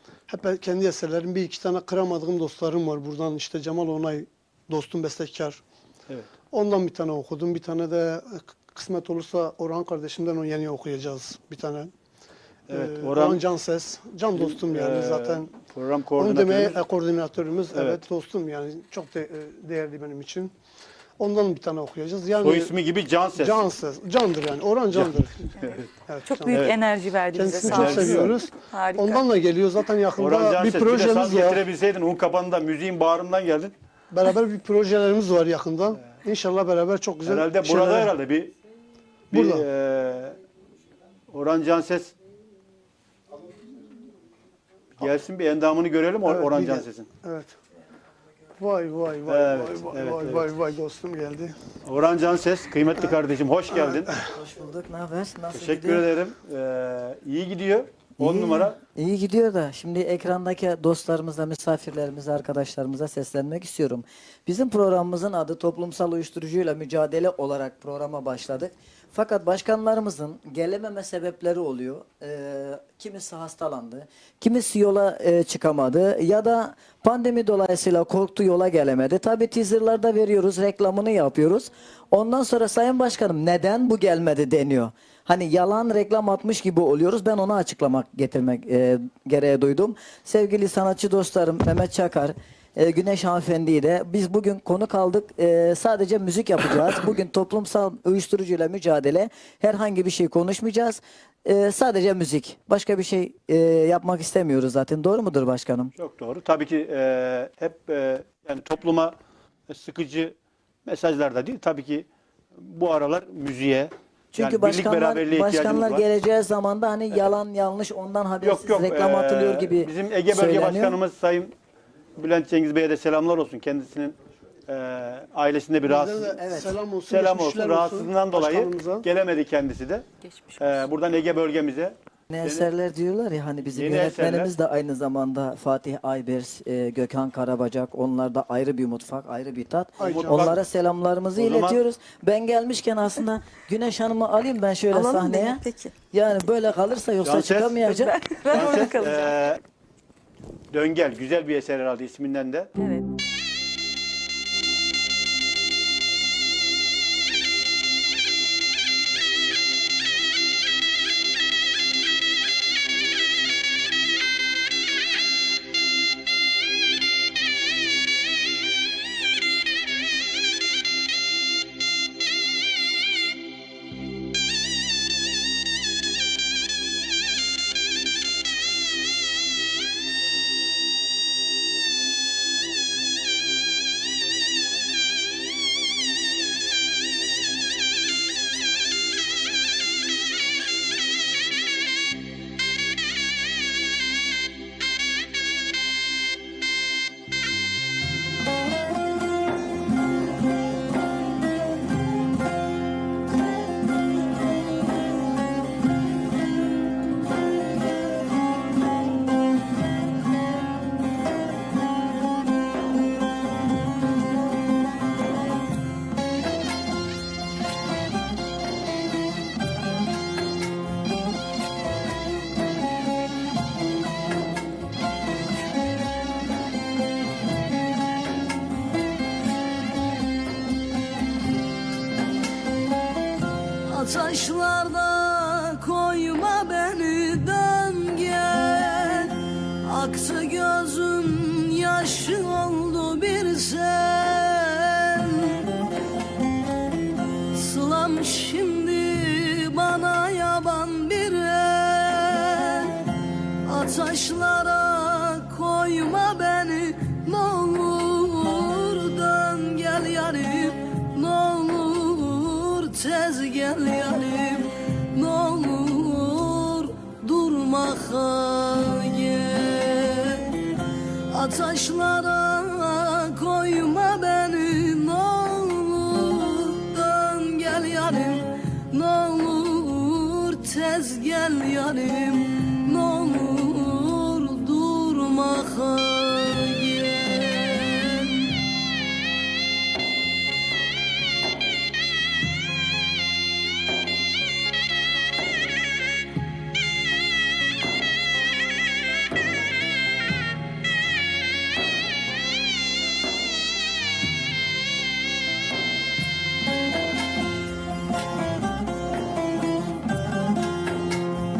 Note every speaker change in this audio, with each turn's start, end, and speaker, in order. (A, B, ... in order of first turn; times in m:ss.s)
0:00.3-0:05.6 A
0:06.5-0:11.9 A
0:12.7-0:13.4 B
0:12.7-0:15.5 A
0:14.3-0:16.8 B
0:16.2-0:20.5 A
0:17.7-0:18.0 B
0:21.2-0:22.7 A
0:22.4-0:23.6 B
0:23.4-0:25.5 A
0:24.9-0:25.9 B
0:26.0-0:26.8 A
0:26.3-0:29.2 C
0:27.3-0:31.6 A
0:27.6-0:28.3 B
0:30.2-0:33.7 B
0:34.1-0:38.1 A
0:37.2-0:38.5 B
0:39.3-0:39.6 A
0:39.3-0:40.4 B
0:41.3-0:42.1 B
0:45.0-0:47.1 B
0:46.2-0:47.5 A
0:48.6-0:51.6 A
0:49.3-0:50.5 B
0:51.8-0:54.2 B
0:54.2-0:56.1 D
0:55.5-0:58.8 B
0:58.2-1:45.9 D
1:46.0-1:49.2 B
1:49.7-1:56.0 B
1:54.3-2:01.0 D
1:58.4-2:01.5 B
2:02.2-2:04.2 B
2:04.7-2:06.4 B
2:05.8-2:09.1 A
2:06.4-2:06.8 D
2:07.1-2:10.0 B
2:10.2-2:10.9 C
2:10.6-2:12.7 B
2:12.3-2:28.4 D
2:13.7-2:14.5 B
2:20.0-2:20.5 A
2:20.0-2:20.6 B
2:21.4-2:21.8 B
2:24.9-2:25.9 C
2:25.0-2:25.6 E
2:27.2-2:28.0 B
2:28.0-2:29.3 C
2:28.5-2:29.6 B
2:30.7-2:32.7 B
2:32.8-2:33.1 C
3:53.8-4:05.8 E
4:07.5-4:48.7 E